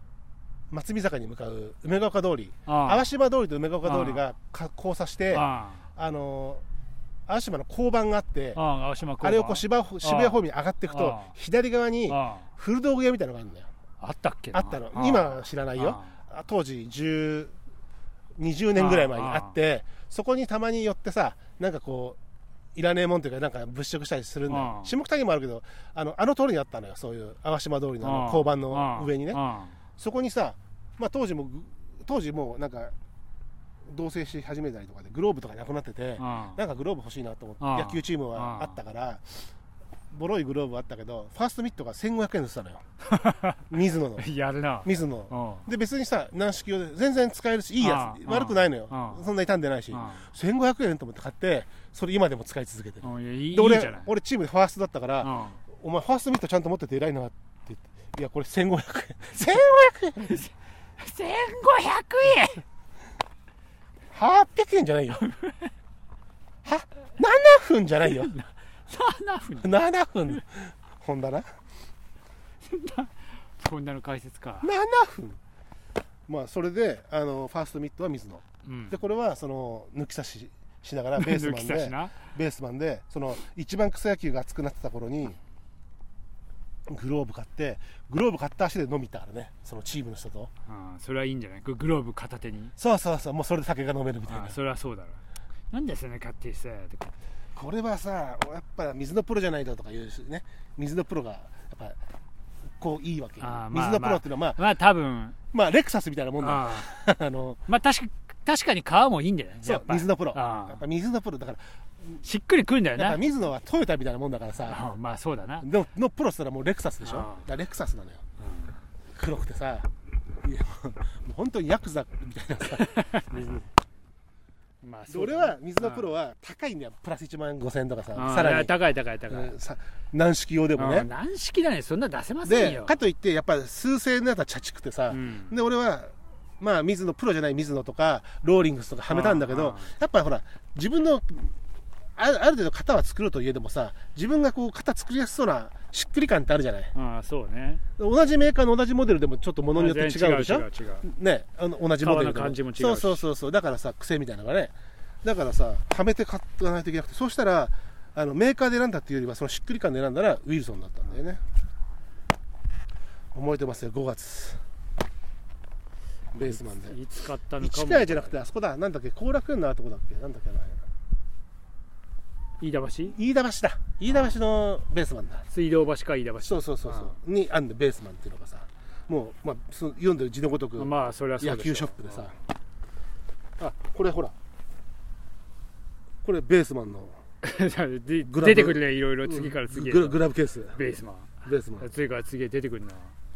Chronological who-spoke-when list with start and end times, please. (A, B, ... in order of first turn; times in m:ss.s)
0:00.7-0:06.6 A
0:02.6-0:03.1 B
0:03.8-0:04.2 B
0:05.3-0:05.8 B
0:07.3-0:08.6 A
0:08.5-0:11.3 B
0:09.2-0:13.7 A
0:12.1-0:12.5 B
0:14.0-0:16.2 B
0:14.5-0:17.5 A
0:18.4-0:22.2 A
0:18.8-0:19.6 B
0:22.7-0:29.4 A
0:24.5-0:25.0 B
0:28.0-0:29.8 B
0:30.0-0:32.9 A
0:33.9-0:39.4 A
0:36.2-0:36.6 B
0:37.6-0:38.8 B
0:40.1-0:42.8 A
0:43.1-0:43.6 B
0:43.7-0:44.2 A
0:44.2-0:45.7 B
0:44.8-1:00.4 A
0:47.8-0:49.2 B
0:49.9-0:50.3 B
0:53.0-0:54.1 B
0:55.2-0:55.6 B
1:00.2-1:02.6 B
1:04.1-1:05.2 A
1:05.3-1:05.7 B
1:06.6-1:08.3 A
1:08.1-1:09.8 B
1:09.6-1:11.5 A
1:12.6-1:14.7 B
1:14.6-1:15.4 A
1:16.3-1:25.4 A
1:18.6-1:19.0 B
1:21.2-1:22.3 B
1:26.9-1:30.5 A
1:30.6-1:32.7 B
1:32.8-1:34.6 A
1:34.3-1:37.2 B
1:37.6-1:42.0 A
1:42.8-1:44.6 A
1:43.4-1:45.4 B
1:45.5-1:47.6 A
1:46.4-1:46.9 B
1:47.7-1:50.8 B
1:49.6-1:51.6 A
1:52.2-1:53.2 B
1:52.9-1:54.8 A
1:54.6-1:55.6 B
1:55.6-1:58.2 A
1:57.0-1:57.4 B
1:58.4-1:58.7 B
1:59.2-1:59.9 A
2:00.4-2:03.7 A
2:02.9-2:03.2 B
2:04.8-2:06.1 B
2:05.1-2:08.8 A
2:08.1-2:09.5 B
2:09.3-2:11.1 A
2:10.8-2:12.9 B
2:12.4-2:21.5 A
2:15.1-2:15.5 B
2:19.1-2:19.9 B
2:22.2-2:26.9 A
2:26.9-2:27.8 B
2:28.0-2:34.7 A
2:29.7-2:31.0 B
2:32.0-2:33.2 B
2:35.2-2:41.4 A
2:43.3-2:44.6 A
2:46.3-2:47.0 A
2:46.5-2:48.4 B
2:47.6-2:50.8 A
2:52.6-2:53.2 B
2:53.1-2:55.4 A
2:54.1-2:54.4 B
2:55.5-2:57.1 B
2:56.4-3:02.3 A
3:00.8-3:02.3 B
3:03.6-3:04.3 A
3:06.2-3:07.2 A
3:07.4-3:13.1 B
3:08.2-3:10.8 A
3:11.4-3:11.9 A